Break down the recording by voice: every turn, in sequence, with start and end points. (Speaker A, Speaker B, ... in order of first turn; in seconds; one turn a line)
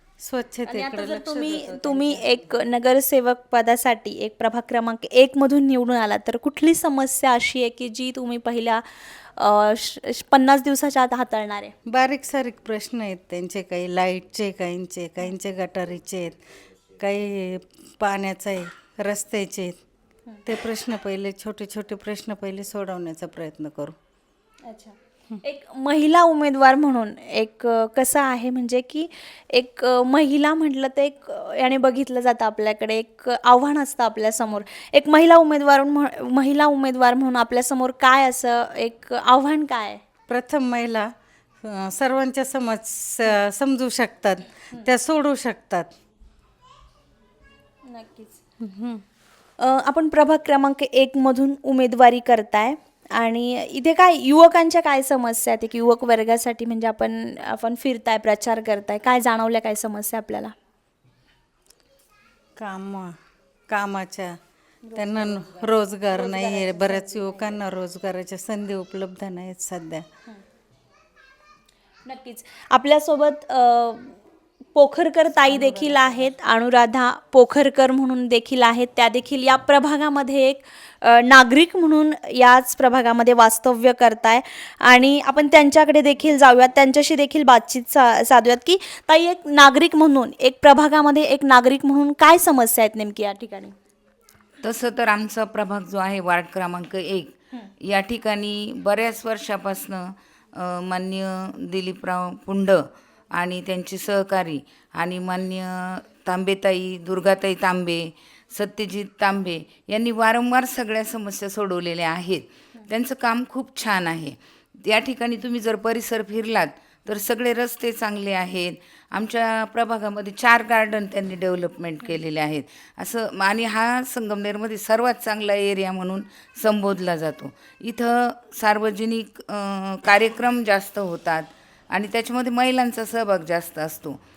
Speaker A: 0.2-2.3
Speaker B: 0.7-11.7
Speaker A: 11.9-16.4
Speaker A: 17.0-19.8
Speaker A: 20.5-24.0
Speaker B: 24.6-40.0
Speaker A: 40.3-41.1
Speaker A: 41.6-45.9
Speaker B: 47.9-48.4
Speaker A: 48.6-49.0
Speaker B: 49.6-60.5
Speaker A: 62.6-63.1
Speaker A: 63.7-64.3
Speaker B: 64.8-67.6
Speaker A: 65.0-70.0
Speaker B: 72.1-74.2
Speaker B: 74.8-93.8
Speaker A: 75.5-76.0
Speaker C: 94.6-134.2